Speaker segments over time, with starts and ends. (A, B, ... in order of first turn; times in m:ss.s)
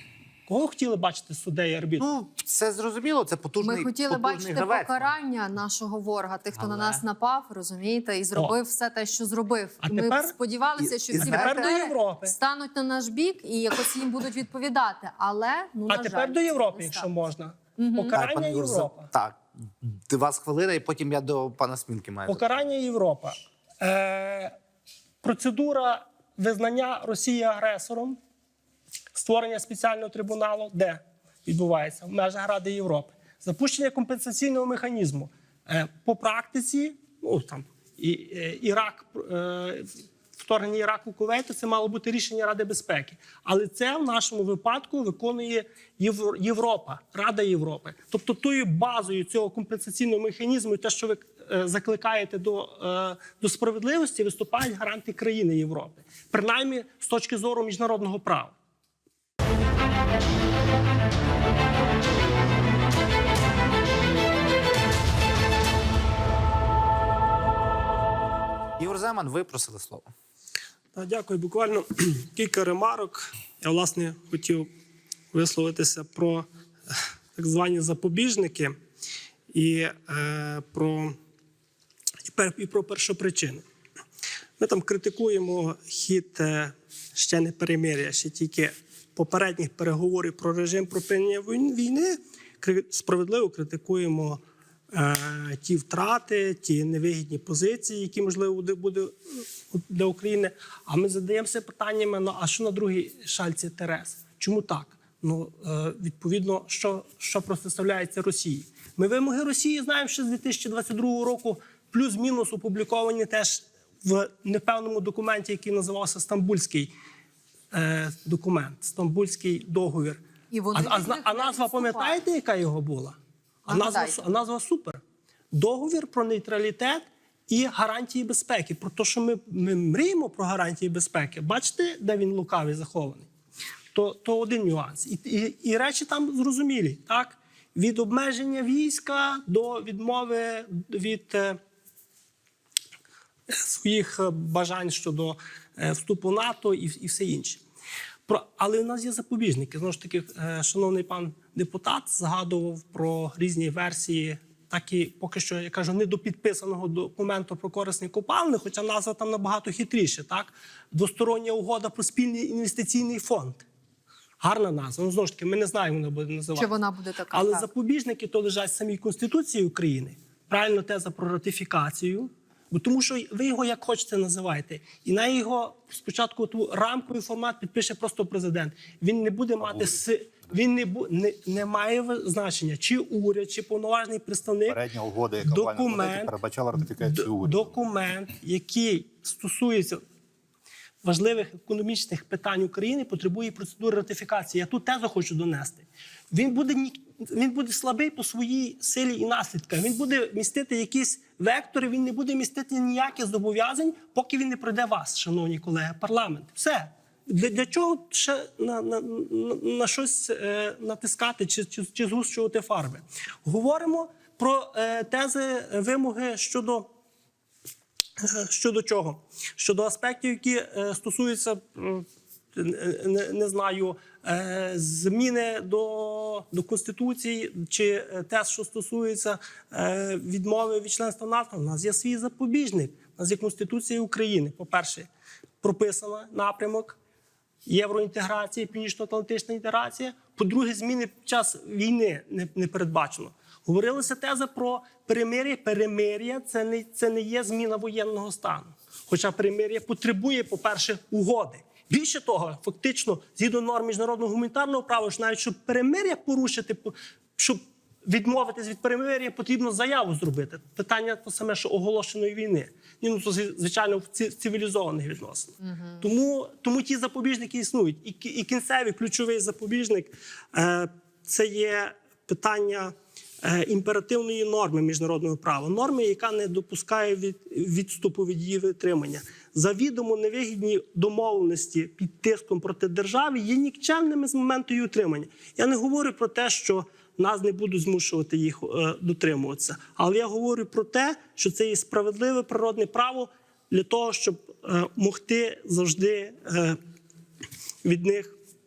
0:00.5-0:02.1 A
0:02.0-0:05.1 B
0:03.6-0:17.1 C
0:06.6-0:07.0 B
0:09.8-0:10.4 A
0:10.8-0:11.8 B
0:11.1-0:12.4 A
0:15.9-0:19.1 A
0:17.8-0:18.2 C
0:18.0-0:22.5 B
0:22.3-0:24.5 A
0:25.2-0:28.2 A
0:29.2-0:58.6 A
1:08.8-1:10.1 B
1:10.9-1:14.7 A
1:15.3-1:16.5 A
1:17.4-1:18.8 A
1:19.5-1:21.2 A
1:22.3-1:23.6 A
1:24.6-1:56.9 A
1:57.7-2:05.0 A
2:00.5-2:02.2 C
2:03.7-2:04.2 C
2:05.5-2:13.3 A
2:13.9-2:21.6 A
2:23.5-2:27.6 A
2:28.3-2:43.6 A
2:44.4-2:46.7 A
2:46.6-2:47.7 C
2:47.3-3:04.8 A
2:59.6-3:00.0 D
3:04.7-3:07.8 D
3:05.4-3:06.4 A
3:06.9-3:10.0 A
3:11.0-3:36.9 A
3:38.2-3:55.1 A
3:55.6-3:57.0 A
3:57.7-4:56.8 A
4:57.8-4:58.4 A